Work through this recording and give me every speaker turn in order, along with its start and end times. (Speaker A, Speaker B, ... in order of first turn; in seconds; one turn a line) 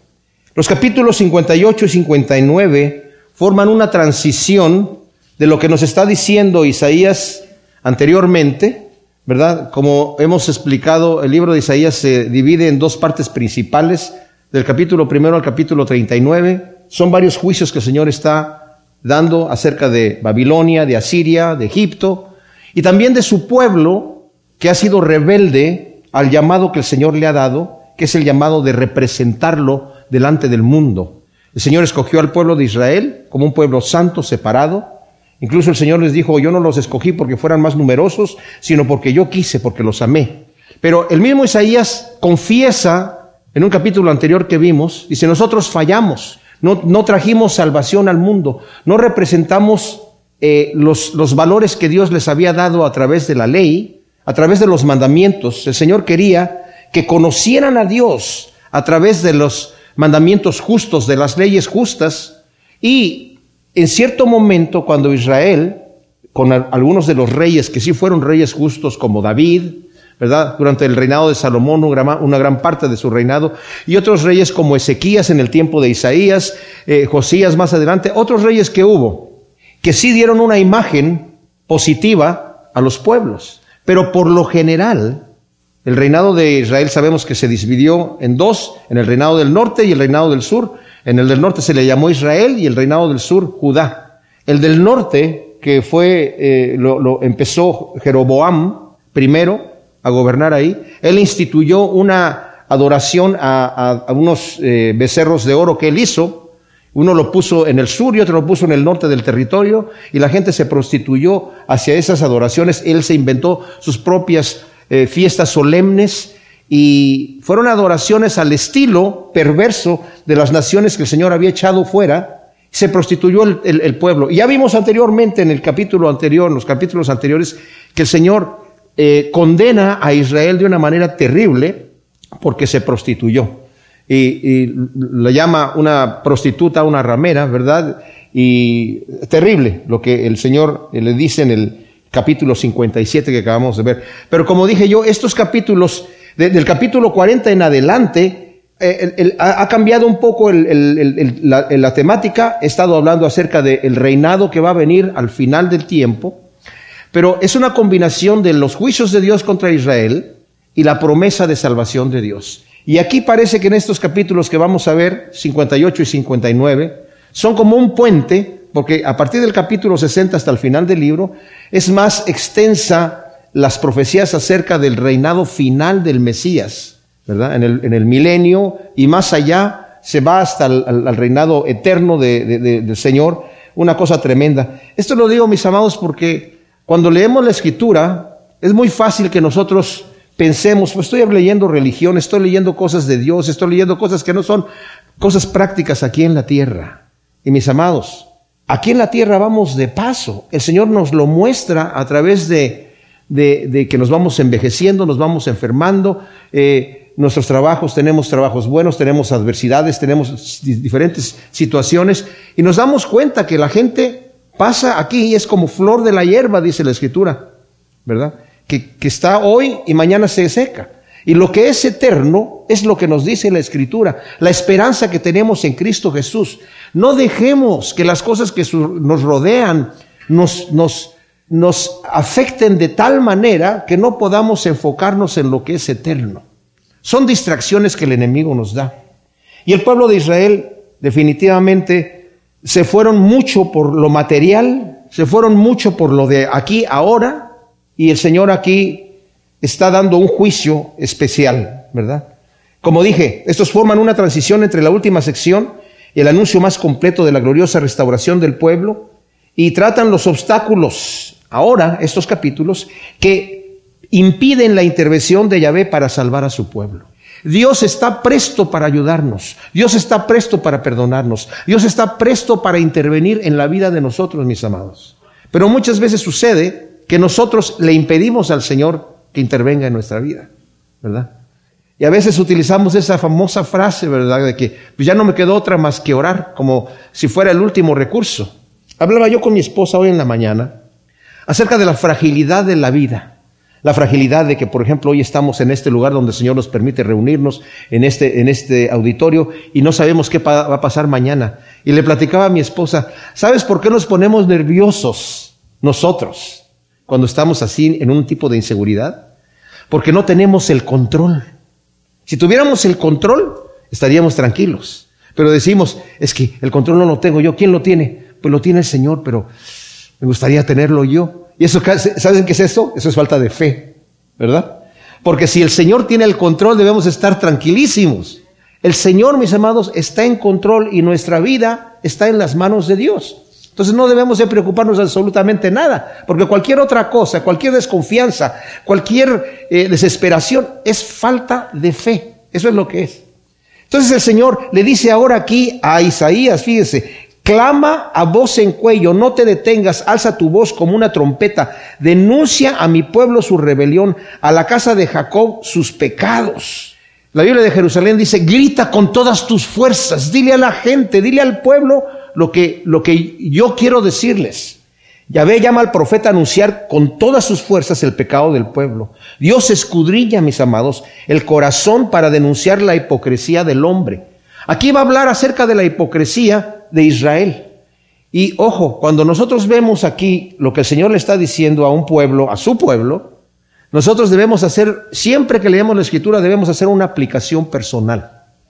Speaker A: 0.6-65.8
Speaker A: 66.3-85.2
Speaker A: 85.8-156.4
Speaker A: 157.1-194.7
Speaker A: 195.2-217.5
Speaker A: 218.1-236.4
Speaker A: 237.0-238.9
Speaker A: 239.7-252.3
Speaker A: 252.8-280.5
Speaker A: 281.0-281.3
Speaker A: 282.0-290.8
Speaker A: 291.5-309.3
Speaker A: 309.9-311.5
Speaker A: 312.3-319.5
Speaker A: 320.2-343.2
Speaker A: 343.9-364.8
Speaker A: 365.3-377.7
Speaker A: 378.3-383.3
Speaker A: 383.9-388.3